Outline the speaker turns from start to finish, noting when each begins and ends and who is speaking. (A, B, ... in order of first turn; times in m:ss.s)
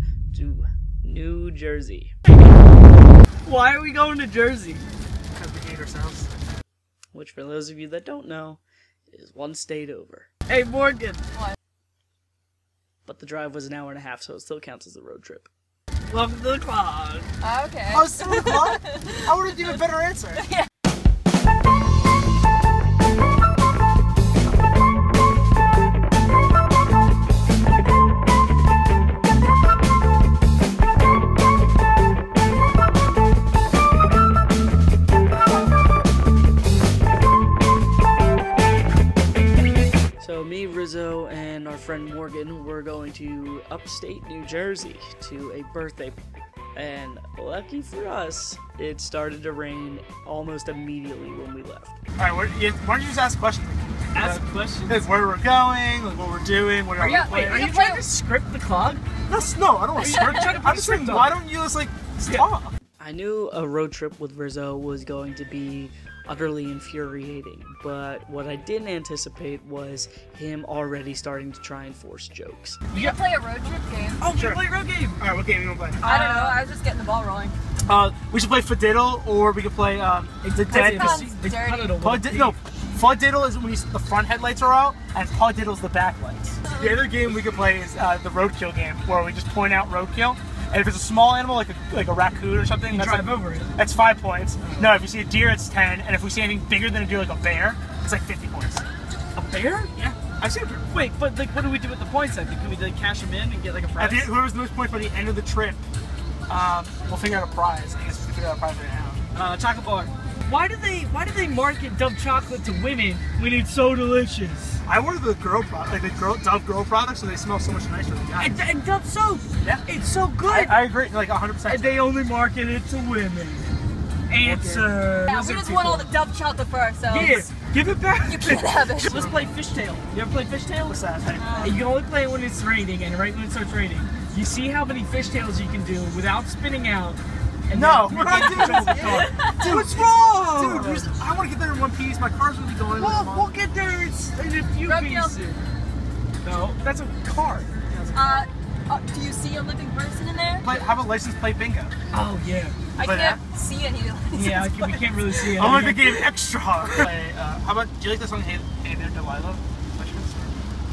0:00.3-0:02.1 A
0:03.4-0:04.8 B
0:05.3-0:06.3 C
0:07.1-0:10.3 A
0:10.5-0:11.2 B
0:13.0-0:15.5 A
0:16.1-0:17.3 B
0:17.4-0:19.2 D
0:17.9-0:20.4 C
0:20.4-0:20.7 D
0:40.2-0:46.2 A
0:46.8-0:52.0 A
0:52.2-0:57.7 C
0:54.2-0:55.1 B
0:57.0-0:58.2 D
0:57.0-0:59.1 B
0:59.3-1:02.7 C
1:00.0-1:01.3 B
1:03.0-1:12.8 A
1:12.9-1:14.2 D
1:14.2-1:15.2 B
1:14.3-1:14.6 C
1:15.2-1:16.0 C
1:16.0-1:16.6 B
1:16.0-1:17.6 D
1:17.9-1:21.3 C
1:20.4-1:22.6 B
1:20.7-1:22.1 D
1:22.0-1:38.9 C
1:32.9-1:33.7 B
1:34.6-1:35.0 B
1:39.4-1:40.1 B
1:40.1-1:40.8 C
1:40.8-1:44.3 B
1:44.0-1:45.8 C
1:46.5-1:49.2 C
1:49.3-1:54.8 B
1:54.9-1:58.6 C
1:58.4-2:00.8 B
2:00.5-2:02.0 C
2:01.6-2:03.6 B
2:04.3-2:06.2 B
2:04.4-2:04.9 C
2:05.3-2:07.5 D
2:07.1-2:11.0 B
2:08.2-2:09.2 D
2:09.1-2:09.6 C
2:10.8-2:11.8 C
2:11.4-2:11.8 D
2:11.6-2:21.1 B
2:17.7-2:23.5 C
2:18.5-2:19.7 D
2:23.0-2:25.6 B
2:24.8-2:25.6 D
2:26.4-2:27.7 B
2:27.9-2:28.4 C
2:28.1-2:30.7 D
2:30.6-2:31.9 C
2:32.1-2:32.9 B
2:33.0-2:35.8 D
2:33.0-2:33.4 C
2:34.3-2:36.2 B
2:35.6-2:40.6 C